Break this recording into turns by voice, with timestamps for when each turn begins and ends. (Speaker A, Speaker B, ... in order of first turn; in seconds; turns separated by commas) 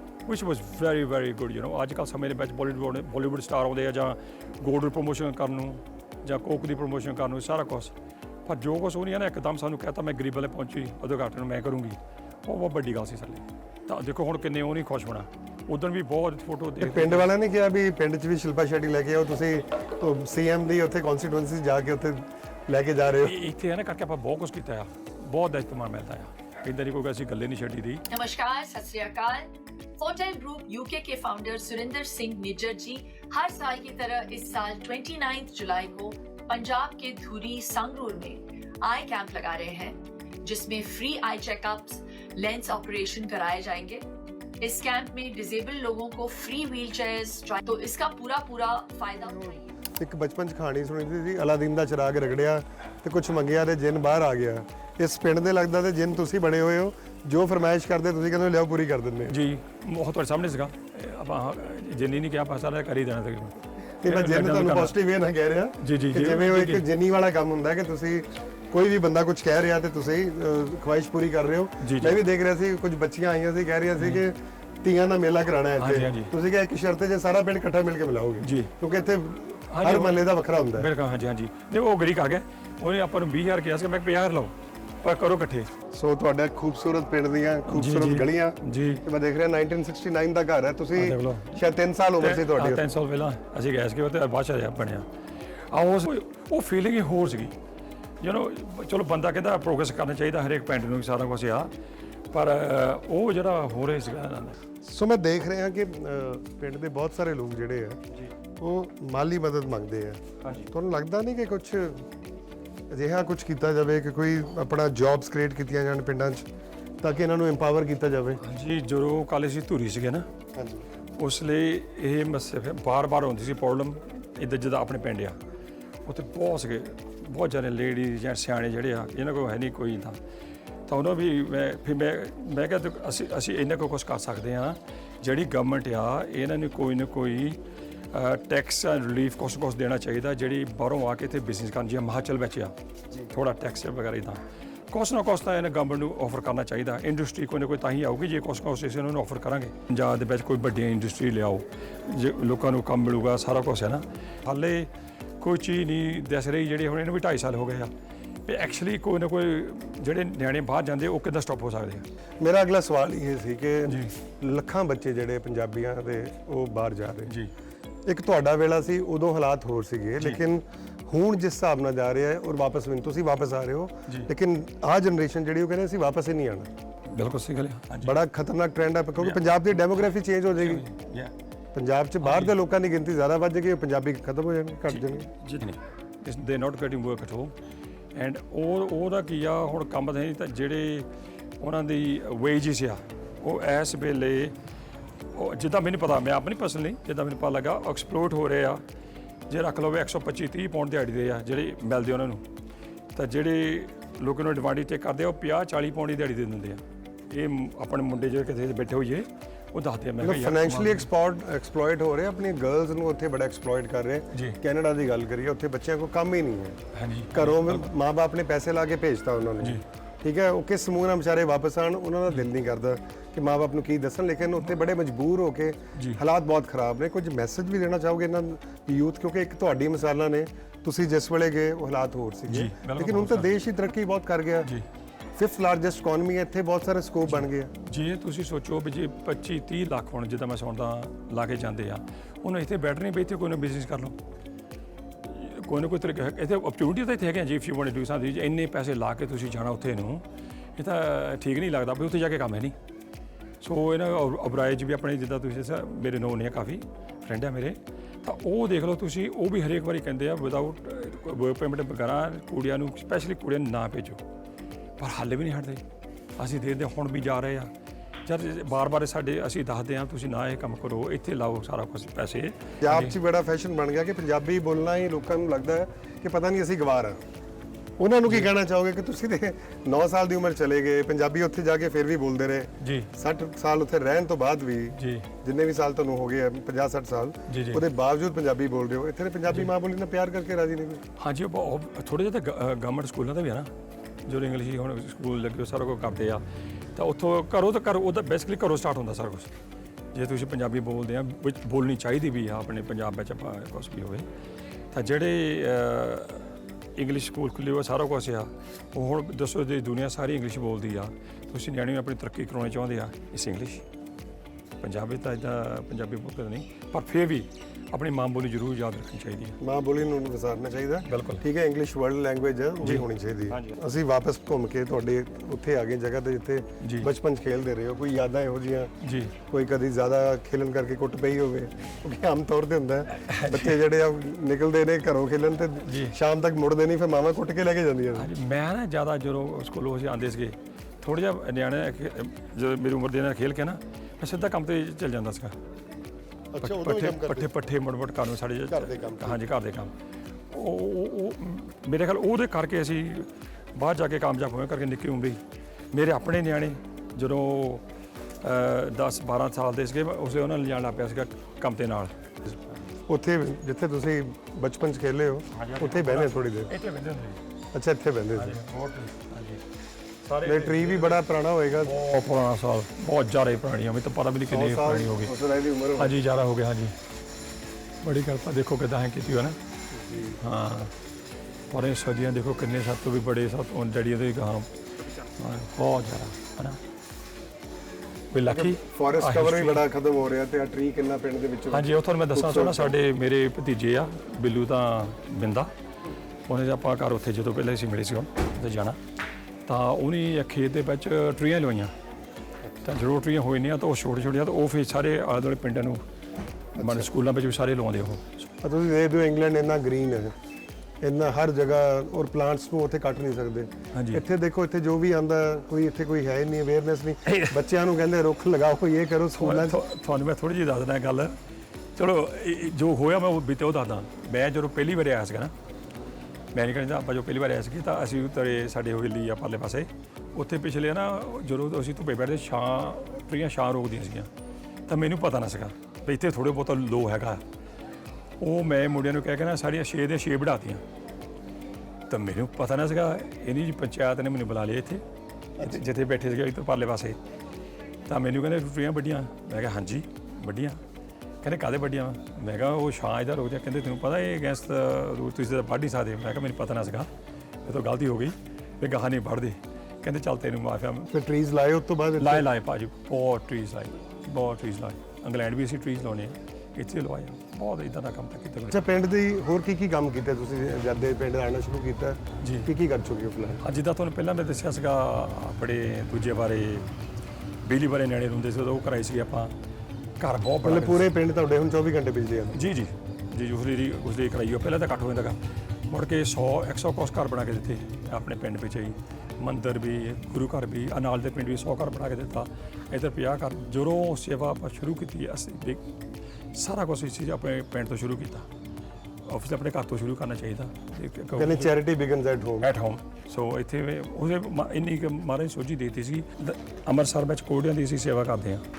Speaker A: 0.2-17.3, Speaker B: 16.8-23.4, Speaker A: 23.2-28.0, Speaker C: 28.1-44.0, Speaker C: 44.6-49.6, Speaker B: 49.9-59.4, Speaker A: 59.3-65.0, Speaker B: 64.0-80.9, Speaker A: 65.8-66.8, Speaker A: 71.8-72.2, Speaker A: 75.8-76.3, Speaker A: 78.4-78.7, Speaker A: 79.7-80.2, Speaker A: 80.7-85.7, Speaker B: 85.9-92.9, Speaker A: 87.7-89.0, Speaker A: 91.0-91.6, Speaker A: 92.2-97.5, Speaker A: 98.2-101.7, Speaker A: 102.3-104.6, Speaker B: 104.8-108.0, Speaker B: 108.6-112.1, Speaker A: 110.4-110.7, Speaker B: 112.9-116.5, Speaker B: 117.0-118.4, Speaker A: 118.4-120.3, Speaker B: 120.5-120.9, Speaker A: 121.2-125.4, Speaker A: 126.1-130.2, Speaker A: 130.9-137.6, Speaker A: 138.1-142.8, Speaker A: 143.3-157.9, Speaker A: 158.5-162.1, Speaker B: 162.4-167.4, Speaker A: 163.8-164.1, Speaker A: 167.3-167.5, Speaker B: 168.1-176.7, Speaker A: 177.1-178.2, Speaker B: 178.0-180.9, Speaker A: 179.2-180.0, Speaker A: 180.6-181.3, Speaker B: 181.7-185.3, Speaker A: 182.2-182.6, Speaker A: 184.9-187.6, Speaker A: 188.1-191.1, Speaker A: 191.6-194.6, Speaker A: 195.3-198.8, Speaker A: 199.5-202.4, Speaker A: 203.1-211.1, Speaker B: 210.2-216.8, Speaker A: 214.3-214.6, Speaker A: 216.9-217.9, Speaker B: 217.3-234.7, Speaker A: 226.0-226.2, Speaker A: 232.5-233.5, Speaker B: 235.3-237.7, Speaker A: 237.4-244.2, Speaker A: 245.2-252.8, Speaker A: 253.6-264.2, Speaker A: 265.0-265.8, Speaker A: 266.4-267.7, Speaker A: 268.2-273.2, Speaker B: 272.8-277.2, Speaker B: 278.0-291.0, Speaker A: 282.8-283.1, Speaker A: 285.0-285.3, Speaker A: 287.5-287.9, Speaker A: 291.2-293.7, Speaker A: 294.2-296.4, Speaker A: 296.9-299.5, Speaker A: 300.1-304.3, Speaker A: 304.9-313.9, Speaker A: 314.8-319.6, Speaker B: 319.6-338.3, Speaker A: 321.1-321.4, Speaker A: 322.8-323.8, Speaker A: 326.8-327.1, Speaker A: 329.0-329.4, Speaker A: 333.1-333.8, Speaker A: 335.8-336.2, Speaker A: 338.1-345.6, Speaker B: 346.5-347.5, Speaker A: 346.6-349.9, Speaker B: 348.7-349.4, Speaker A: 350.5-355.4, Speaker A: 355.9-357.9, Speaker A: 358.4-362.5, Speaker B: 363.1-366.7, Speaker A: 365.5-367.4, Speaker B: 367.7-368.6, Speaker A: 368.3-369.6, Speaker A: 370.2-371.2, Speaker B: 370.4-371.9, Speaker A: 371.8-375.4, Speaker B: 374.5-376.1, Speaker A: 375.9-376.9, Speaker A: 378.0-379.6, Speaker B: 379.9-380.4, Speaker A: 380.4-380.9, Speaker A: 381.7-384.7, Speaker A: 385.2-386.8, Speaker A: 388.3-389.8, Speaker B: 388.4-393.0, Speaker A: 391.7-395.7, Speaker A: 396.5-399.0, Speaker A: 399.7-401.9, Speaker A: 402.8-406.0, Speaker A: 406.7-408.5, Speaker B: 406.8-407.1, Speaker B: 408.6-410.3, Speaker B: 411.0-419.8, Speaker A: 413.9-414.2, Speaker A: 417.3-417.6, Speaker A: 419.4-421.4, Speaker A: 421.9-425.5, Speaker A: 426.5-434.3, Speaker A: 434.9-437.4, Speaker A: 438.4-440.8, Speaker A: 442.1-445.0, Speaker A: 445.6-447.2, Speaker A: 448.1-450.8, Speaker A: 451.4-457.1, Speaker A: 457.6-461.1, Speaker B: 461.1-462.5, Speaker A: 462.2-468.9, Speaker B: 468.7-473.6, Speaker A: 472.4-472.7, Speaker A: 473.6-476.9, Speaker A: 477.6-479.6, Speaker A: 480.2-481.1, Speaker B: 480.6-482.6, Speaker A: 482.5-485.4, Speaker A: 485.9-496.0, Speaker A: 496.5-498.5, Speaker A: 499.3-501.8, Speaker B: 501.4-502.7, Speaker A: 502.6-508.6